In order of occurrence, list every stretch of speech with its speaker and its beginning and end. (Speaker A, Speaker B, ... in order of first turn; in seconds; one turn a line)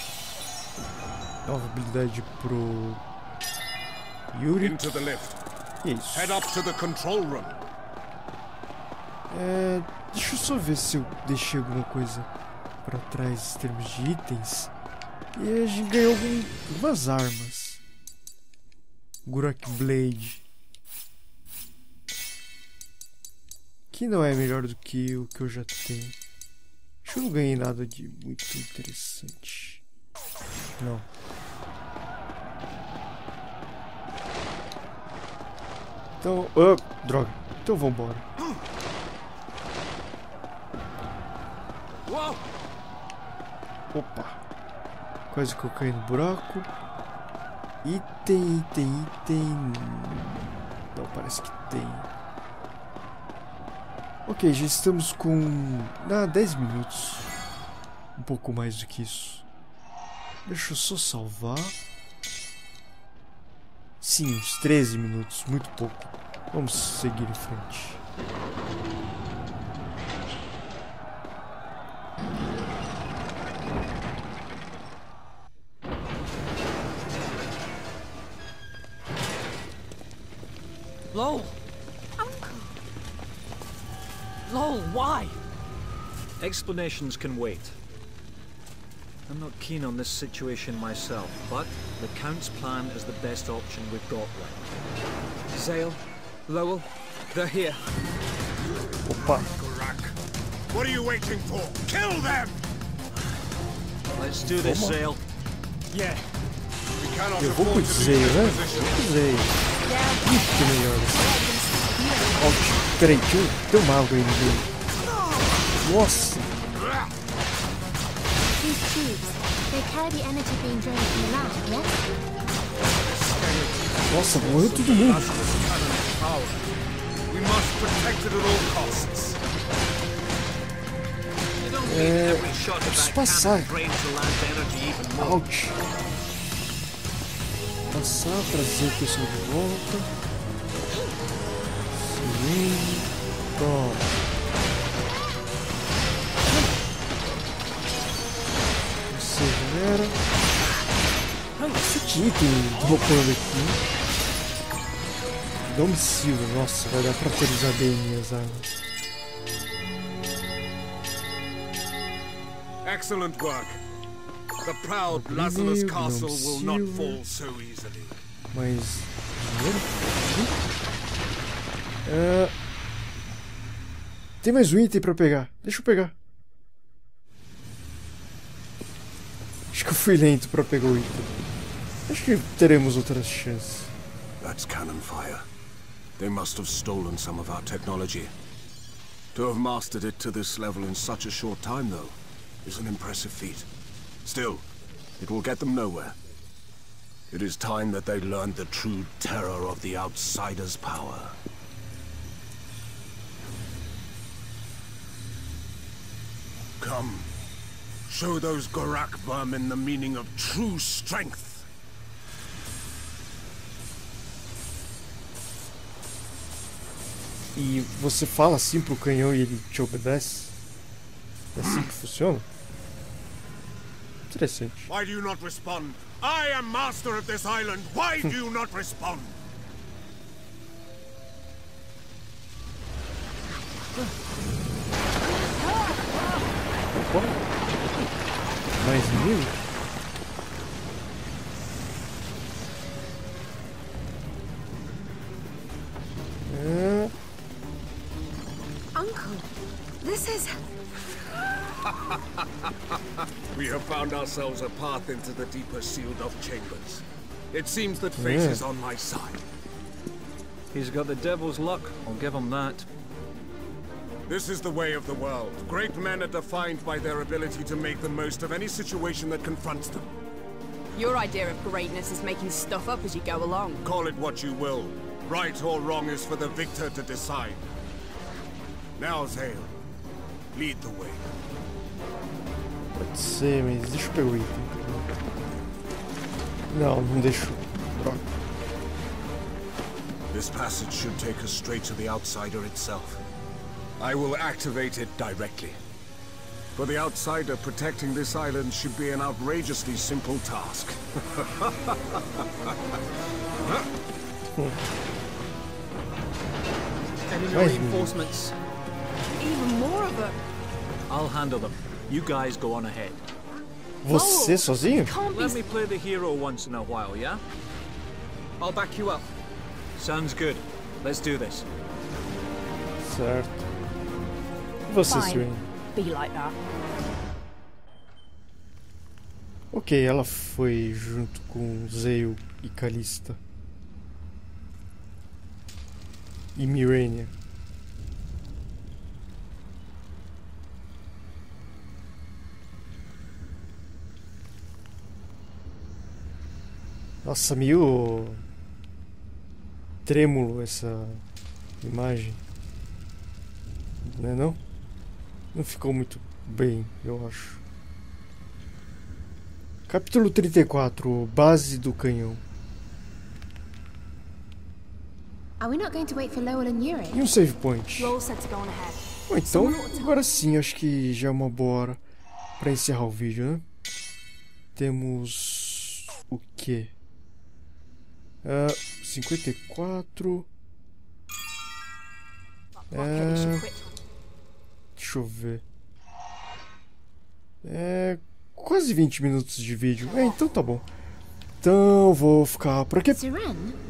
Speaker A: 1.4-3.0
Speaker A: 4.3-4.9
Speaker B: 4.6-5.4
Speaker A: 5.8-6.4
Speaker B: 6.1-7.6
Speaker A: 9.3-12.3
Speaker A: 12.8-14.7
Speaker A: 15.3-17.8
Speaker A: 19.3-20.4
Speaker A: 23.9-26.2
Speaker A: 27.0-29.8
Speaker A: 30.8-31.1
Speaker A: 36.2-38.3
Speaker C: 42.1-42.4
Speaker A: 43.9-44.4
Speaker A: 45.3-46.7
Speaker A: 47.8-52.1
Speaker A: 54.3-57.3
Speaker A: 58.2-59.5
Speaker A: 60.5-61.8
Speaker A: 64.0-68.0
Speaker D: 81.1-81.5
Speaker E: 82.2-82.7
Speaker D: 84.5-85.3
Speaker C: 86.4-87.8
Speaker C: 89.3-94.7
Speaker D: 95.5-97.8
Speaker A: 99.0-99.5
Speaker B: 99.1-100.2
Speaker B: 100.7-102.6
Speaker C: 104.2-105.2
Speaker A: 104.5-105.0
Speaker D: 105.9-106.2
Speaker B: 107.0-109.0
Speaker A: 107.4-109.6
Speaker E: 109.9-110.3
Speaker A: 110.2-111.4
Speaker F: 111.1-112.9
Speaker A: 112.3-114.7
Speaker A: 115.8-116.6
Speaker E: 118.6-121.9
Speaker B: 123.0-126.7
Speaker A: 124.1-125.3
Speaker B: 127.3-129.4
Speaker C: 131.6-135.4
Speaker A: 131.8-133.7
Speaker A: 135.2-135.8
Speaker A: 137.9-140.1
Speaker A: 141.9-144.1
Speaker A: 149.1-150.2
Speaker A: 151.8-153.8
Speaker A: 155.7-158.7
Speaker B: 162.8-163.8
Speaker B: 164.6-168.2
Speaker A: 165.1-167.2
Speaker A: 168.5-170.6
Speaker A: 172.1-172.5
Speaker A: 174.4-176.1
Speaker A: 179.7-181.4
Speaker A: 182.1-183.9
Speaker B: 184.4-185.5
Speaker B: 186.2-188.3
Speaker B: 189.3-193.7
Speaker B: 194.2-194.7
Speaker B: 195.2-196.2
Speaker B: 197.3-201.4
Speaker B: 206.8-207.3
Speaker B: 208.1-211.7
Speaker A: 217.6-220.6
Speaker A: 221.6-222.5
Speaker A: 224.3-224.9
Speaker B: 224.9-229.4
Speaker A: 236.9-237.4
Speaker A: 238.8-239.6
Speaker A: 246.5-247.1
Speaker E: 248.9-249.5
Speaker E: 250.0-250.6
Speaker B: 251.9-252.2
Speaker B: 253.5-259.4
Speaker A: 258.2-258.6
Speaker C: 260.7-262.9
Speaker B: 264.3-270.1
Speaker F: 270.9-273.8
Speaker B: 273.8-277.6
Speaker B: 279.0-279.8
Speaker B: 280.5-281.3
Speaker A: 282.9-285.1
Speaker A: 286.7-288.3
Speaker B: 290.3-293.2
Speaker B: 294.0-295.8
Speaker B: 296.8-303.0
Speaker D: 307.3-308.6
Speaker A: 307.5-308.2
Speaker F: 309.4-310.4
Speaker C: 311.1-313.2
Speaker A: 314.0-315.1
Speaker F: 314.1-315.6
Speaker C: 315.3-317.4
Speaker D: 318.6-319.3
Speaker C: 320.0-321.7
Speaker A: 323.0-323.7
Speaker A: 324.9-325.7
Speaker F: 325.1-326.6
Speaker A: 329.7-333.4
Speaker A: 336.6-337.4
Speaker A: 347.2-348.4
Speaker A: 350.1-351.2
Speaker A: 351.8-352.4
Speaker A: 354.0-354.6
Speaker A: 355.5-357.6
Speaker A: 359.9-362.4
Speaker E: 365.6-367.3
Speaker A: 367.1-368.1
Speaker F: 368.0-370.2
Speaker A: 369.3-372.0
Speaker A: 372.6-373.6
Speaker A: 374.8-376.9
Speaker A: 378.4-380.5
Speaker F: 382.9-384.0
Speaker A: 382.9-383.7
Speaker A: 385.0-385.6
Speaker A: 387.6-390.9
Speaker A: 391.6-393.2
Speaker E: 393.1-393.8